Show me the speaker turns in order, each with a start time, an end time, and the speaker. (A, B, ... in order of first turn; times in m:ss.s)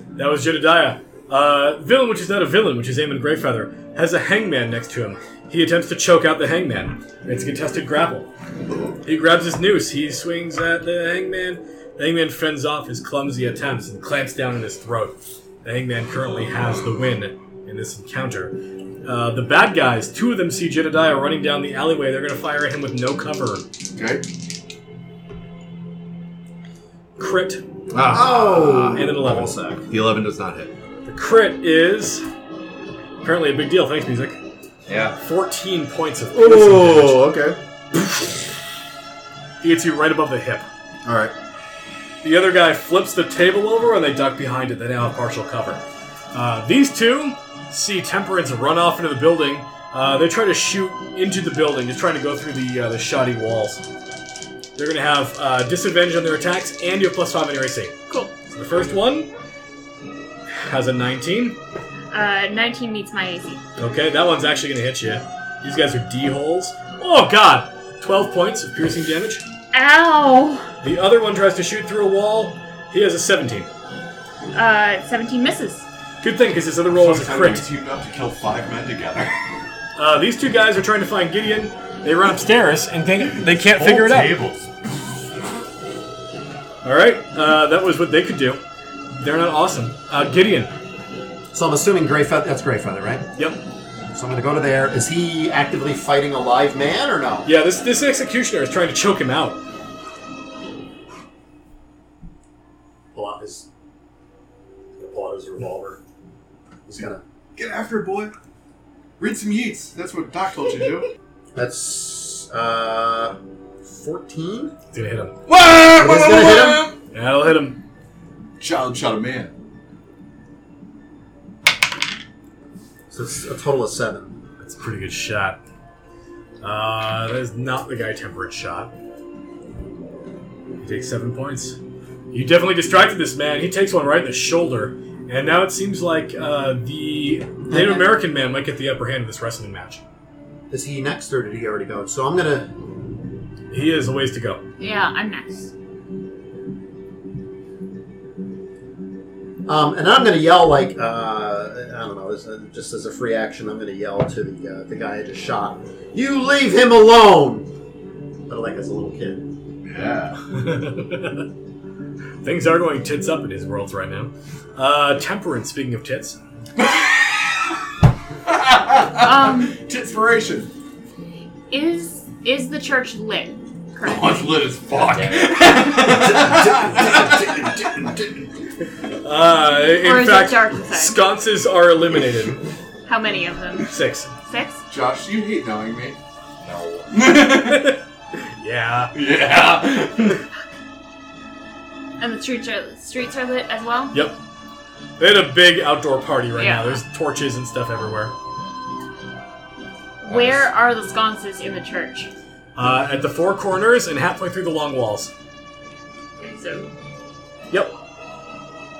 0:00.2-0:08.3 A
0:09.0-0:23.6 A
0:24.0-0:24.2 B
0:27.2-0:27.6 A
0:27.9-0:30.7 B
0:28.1-0:29.8 C
0:28.9-0:29.5 A
0:31.0-0:32.2 A
0:33.2-0:34.4 A
0:34.9-0:35.2 D
0:35.2-0:37.2 A
0:36.3-0:37.6 B
0:39.6-0:40.6 A
0:41.0-0:41.3 B
0:42.2-0:53.8 A
0:54.8-0:57.9 A
0:58.1-0:58.3 E
0:58.5-0:59.3 A
1:00.5-1:01.6 A
1:02.1-1:03.6 E
1:03.8-1:09.4 A
1:09.7-1:10.7 E
1:10.8-1:13.7 A
1:14.5-1:15.8 E
1:16.2-1:17.6 A
1:16.9-1:19.3 B
1:20.0-1:24.3 A
1:23.2-1:24.7 B
1:26.8-1:28.6 A
1:29.2-1:30.7 A
1:31.5-1:33.3 C
1:34.1-1:37.5 C
1:37.4-1:39.6 A
1:43.1-1:43.7 C
1:45.0-1:46.0 C
1:46.9-1:47.2 C
1:47.6-1:48.3 B
1:49.2-1:51.1 B
1:51.5-1:54.7 C
1:54.9-1:55.4 A
1:55.4-1:57.0 B
1:55.8-1:56.9 C
1:57.1-1:57.8 A
1:58.6-1:59.5 B
2:03.1-2:04.4 C
2:04.6-2:05.6 A
2:06.6-2:08.9 A
2:10.8-2:11.8 A
2:12.3-2:20.0 A
2:17.7-2:18.2 C
2:20.7-2:22.7 C
2:23.7-2:24.6 A
2:24.8-2:25.7 E
2:29.6-2:37.7 C
2:38.5-2:39.5 C
2:39.8-2:40.4 B
2:40.5-2:41.5 A
2:42.4-2:46.4 A
2:46.8-2:47.4 B
2:48.5-2:50.7 B
2:49.2-2:49.8 E
2:51.7-2:54.6 E
2:54.0-2:58.5 B
2:54.9-2:55.8 D
2:56.0-2:57.7 C
2:59.2-3:02.7 A
2:59.9-3:01.3 E
3:03.0-3:03.9 E
3:03.8-3:04.3 A
3:04.4-3:04.8 E
3:04.9-3:06.2 B
3:06.6-3:07.1 D
3:07.1-3:08.0 B
3:07.5-3:09.1 A
3:09.1-3:10.4 B
3:12.2-3:14.3 E
3:14.1-3:14.4 A
3:15.2-3:18.3 A
3:16.6-3:17.0 E
3:20.2-3:22.3 E
3:20.3-3:20.6 D
3:22.8-3:25.3 A
3:26.4-3:26.9 E